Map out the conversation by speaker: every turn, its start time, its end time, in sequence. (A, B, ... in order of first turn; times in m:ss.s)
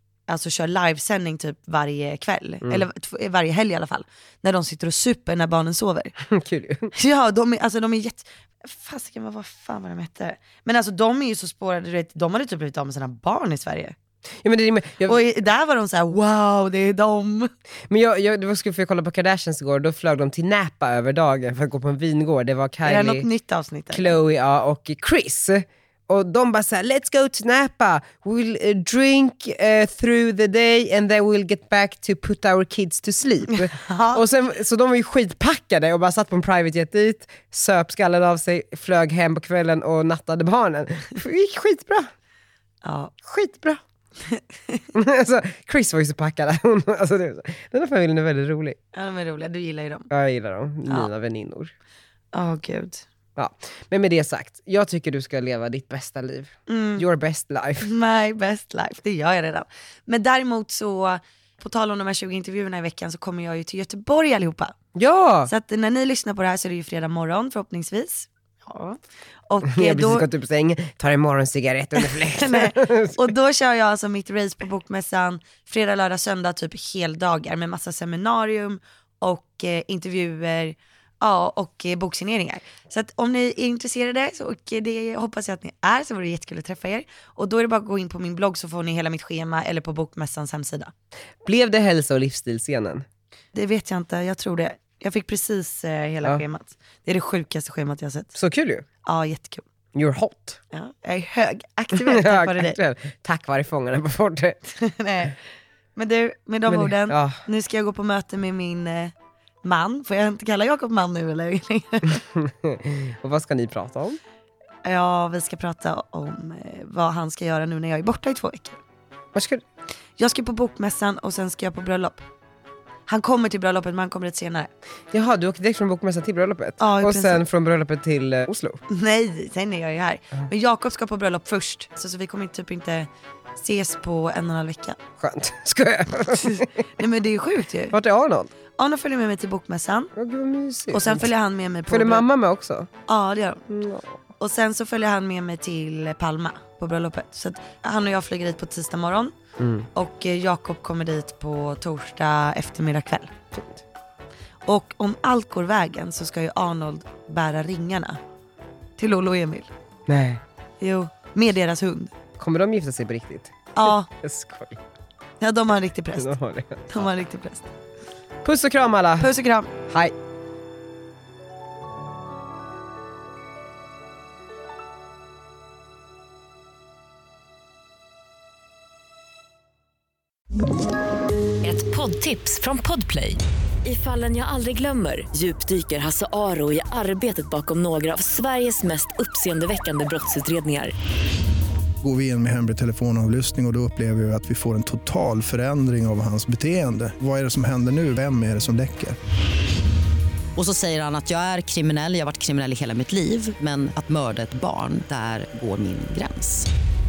0:00.3-0:06.1 A
0:06.3-0:06.9 B
0:06.9-0:13.9 A
0:14.4-0:15.2 B
0:15.0-0:17.5 A
0:17.9-0:23.3 B
0:22.8-0:24.2 A
0:23.9-0:42.1 B
0:33.5-0:34.2 A
0:42.8-0:43.1 A
0:43.2-0:43.8 B
0:44.2-0:44.8 A
0:44.9-0:48.8 B
0:48.9-0:50.1 A
0:50.1-0:51.7 B
0:52.3-0:53.0 A
0:53.4-0:57.9 B
0:56.7-0:57.0 A
0:57.8-1:04.7 A
1:04.9-1:05.5 B
1:05.5-1:10.3 A
1:09.6-1:13.2 B
1:12.0-1:30.9 A
1:31.4-1:33.1 B
1:33.5-1:38.4 A
1:38.4-1:38.9 B
1:39.0-1:39.6 A
1:39.9-1:40.6 B
1:40.7-1:42.8 A
1:41.9-1:44.6 B
1:44.7-1:45.4 A
1:46.0-1:49.1 A
1:46.7-1:47.4 B
1:49.6-1:52.2 A
1:52.4-1:54.2 B
1:54.8-1:58.8 A
1:59.3-1:59.6 B
2:00.2-2:02.2 A
2:03.1-2:04.7 A
2:05.1-2:08.8 B
2:06.8-2:07.4 A
2:08.9-2:15.0 A
2:15.2-2:16.8 B
2:16.3-2:17.9 A
2:17.9-2:18.5 B
2:18.8-2:20.1 A
2:20.1-2:21.3 B
2:20.9-2:22.2 A
2:21.9-2:22.9 B
2:23.1-2:23.6 A
2:23.7-2:24.2 B
2:24.4-2:29.3 A
2:29.6-2:29.9 B
2:29.9-2:33.3 A
2:33.5-2:33.8 B
2:34.7-2:38.2 A
2:39.0-2:39.7 A
2:40.1-2:40.4 B
2:40.8-2:42.1 A
2:42.4-2:44.8 B
2:43.7-2:44.1 A
2:45.4-2:46.4 A
2:46.2-2:47.1 B
2:46.9-2:47.7 A
2:48.4-2:49.3 B
2:49.2-2:49.7 A
2:49.9-2:50.1 B
3:01.6-3:10.9 C
3:12.0-3:19.2 D
3:20.6-3:26.7 E